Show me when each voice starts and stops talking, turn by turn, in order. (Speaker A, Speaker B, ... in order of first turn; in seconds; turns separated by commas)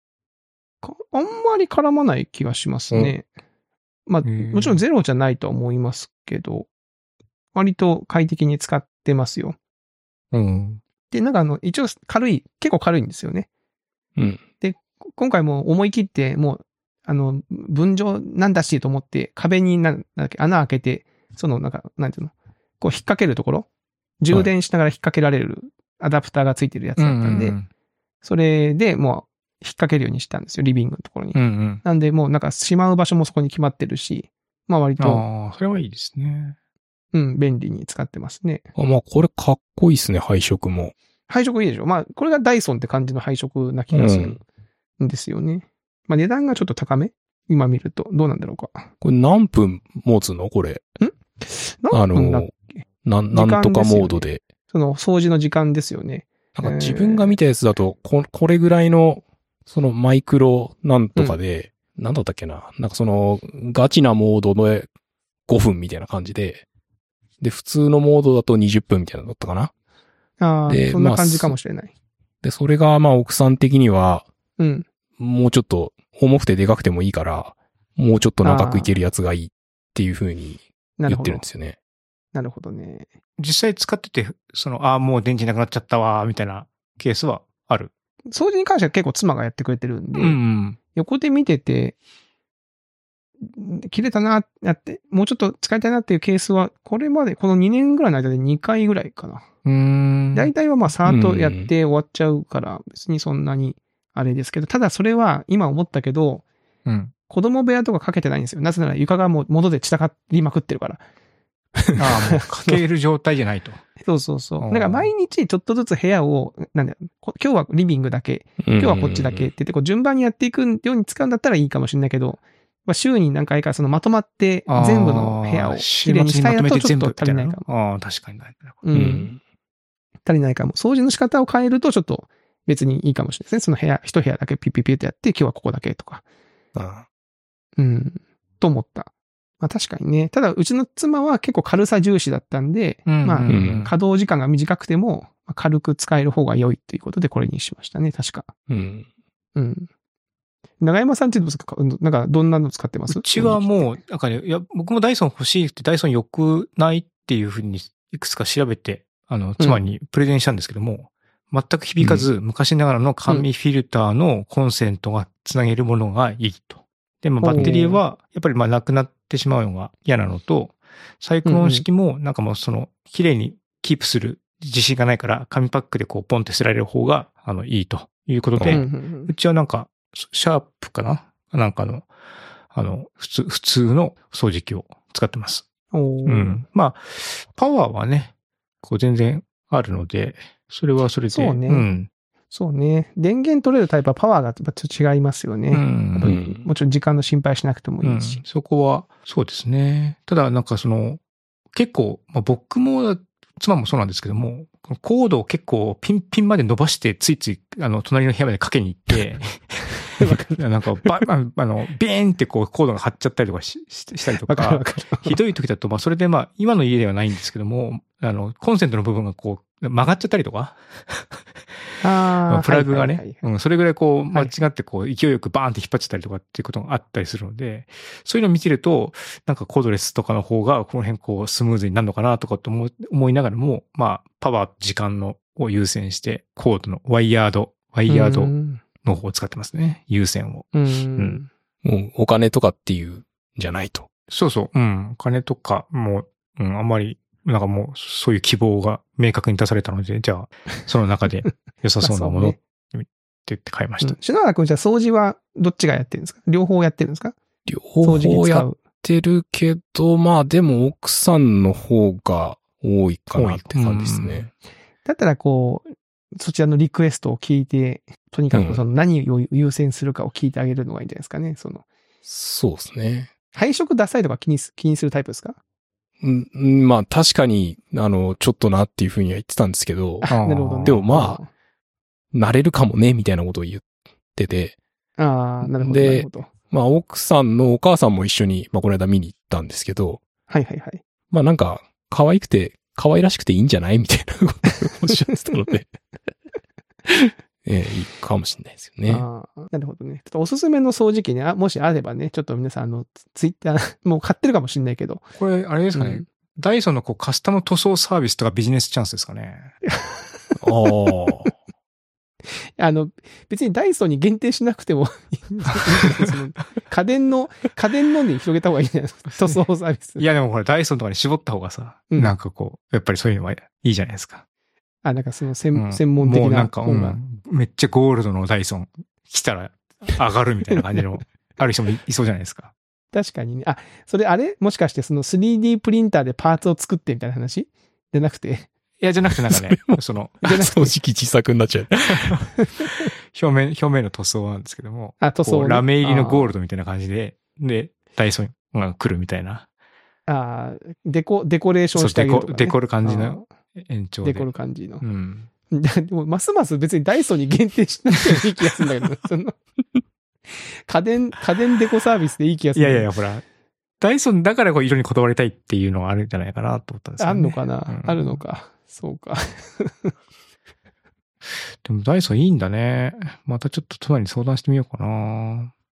Speaker A: 0.8-3.2, Speaker A: 4.1-6.7, Speaker B: 4.2-4.8, Speaker A: 7.5-9.6, Speaker B: 10.3-10.8, Speaker A: 11.1-13.5, Speaker C: 14.2-14.4, Speaker A: 14.6-23.7, Speaker A: 24.2-27.6, Speaker B: 27.0-27.7, Speaker A: 28.2-35.2, Speaker B: 31.3-31.8, Speaker B: 35.0-36.5, Speaker A: 37.1-38.7, Speaker C: 38.8-40.9, Speaker A: 41.3-44.4, Speaker C: 43.9-44.4, Speaker A: 45.0-48.9, Speaker C: 49.0-50.8, Speaker A: 51.0-52.8, Speaker C: 51.9-52.5, Speaker C: 53.0-54.4, Speaker A: 53.3-57.4, Speaker C: 56.5-64.9, Speaker C: 65.5-66.6, Speaker C: 67.4-69.7, Speaker A: 70.4-71.9, Speaker C: 70.7-71.5, Speaker C: 72.4-74.2, Speaker A: 74.6-74.8, Speaker C: 75.2-81.8, Speaker A: 78.4-78.9, Speaker A: 81.0-81.4, Speaker A: 82.3-83.1, Speaker B: 83.4-87.9, Speaker A: 88.3-90.4, Speaker B: 90.2-90.8, Speaker A: 90.9-92.0, Speaker A: 93.4-99.4, Speaker B: 99.6-100.5, Speaker A: 100.3-106.4, Speaker C: 101.0-101.7, Speaker B: 106.8-107.1, Speaker A: 107.3-111.0, Speaker A: 111.8-112.8, Speaker B: 112.0-113.8, Speaker A: 114.0-127.7, Speaker B: 114.6-115.1, Speaker C: 118.6-119.5, Speaker B: 124.7-128.8, Speaker A: 128.8-129.3, Speaker C: 128.9-129.4, Speaker A: 130.2-136.2, Speaker C: 136.7-137.0, Speaker A: 137.8-139.1, Speaker A: 139.6-148.5, Speaker B: 143.1-143.9, Speaker C: 143.5-143.8, Speaker C: 148.7-149.1, Speaker A: 149.6-149.9, Speaker A: 150.8-153.9, Speaker B: 153.1-182.1, Speaker A: 167.4-168.0, Speaker A: 171.4-171.8, Speaker C: 178.5-178.8, Speaker A: 178.7-179.3, Speaker B: 182.7-185.6, Speaker A: 185.9-186.6, Speaker B: 186.2-188.3, Speaker B: 188.8-192.1, Speaker A: 191.3-191.9, Speaker A: 192.5-198.4, Speaker B: 195.7-196.3, Speaker C: 196.2-196.7, Speaker B: 198.0-201.2, Speaker B: 201.7-221.4, Speaker A: 210.2-210.6, Speaker A: 214.5-215.3, Speaker A: 222.0-223.4, Speaker B: 222.5-241.4, Speaker A: 238.1-238.8, Speaker A: 240.7-241.5, Speaker C: 241.8-244.1, Speaker B: 244.3-254.2, Speaker A: 252.0-252.6, Speaker A: 254.0-257.4, Speaker C: 257.6-264.4, Speaker A: 258.0-258.8, Speaker B: 263.3-264.5, Speaker A: 265.0-271.9, Speaker C: 268.5-268.8, Speaker C: 272.2-273.3, Speaker A: 273.5-275.6, Speaker C: 276.2-280.3, Speaker A: 280.2-281.5, Speaker B: 280.3-281.0, Speaker C: 280.8-281.4, Speaker C: 282.3-283.8, Speaker C: 284.3-284.8, Speaker A: 285.2-286.5, Speaker C: 285.6-290.2, Speaker A: 290.5-291.0, Speaker C: 291.3-295.9, Speaker A: 295.3-295.6, Speaker C: 297.1-299.2, Speaker A: 299.1-305.2, Speaker B: 305.4-309.7, Speaker A: 305.9-306.2, Speaker A: 309.9-310.6, Speaker C: 310.6-311.5, Speaker A: 312.8-320.2, Speaker B: 315.9-316.3, Speaker B: 320.2-324.4, Speaker A: 325.0-327.2, Speaker B: 325.7-332.7, Speaker A: 333.1-338.7, Speaker B: 339.0-340.4, Speaker C: 339.5-342.5, Speaker A: 340.4-340.9, Speaker B: 342.1-342.4, Speaker B: 343.0-349.7, Speaker A: 345.2-346.5, Speaker A: 350.3-353.4, Speaker B: 351.9-355.5, Speaker A: 354.2-355.0, Speaker A: 355.7-359.6, Speaker A: 360.9-363.1, Speaker B: 362.7-363.4, Speaker B: 364.0-368.4, Speaker A: 367.2-370.1, Speaker B: 371.8-375.7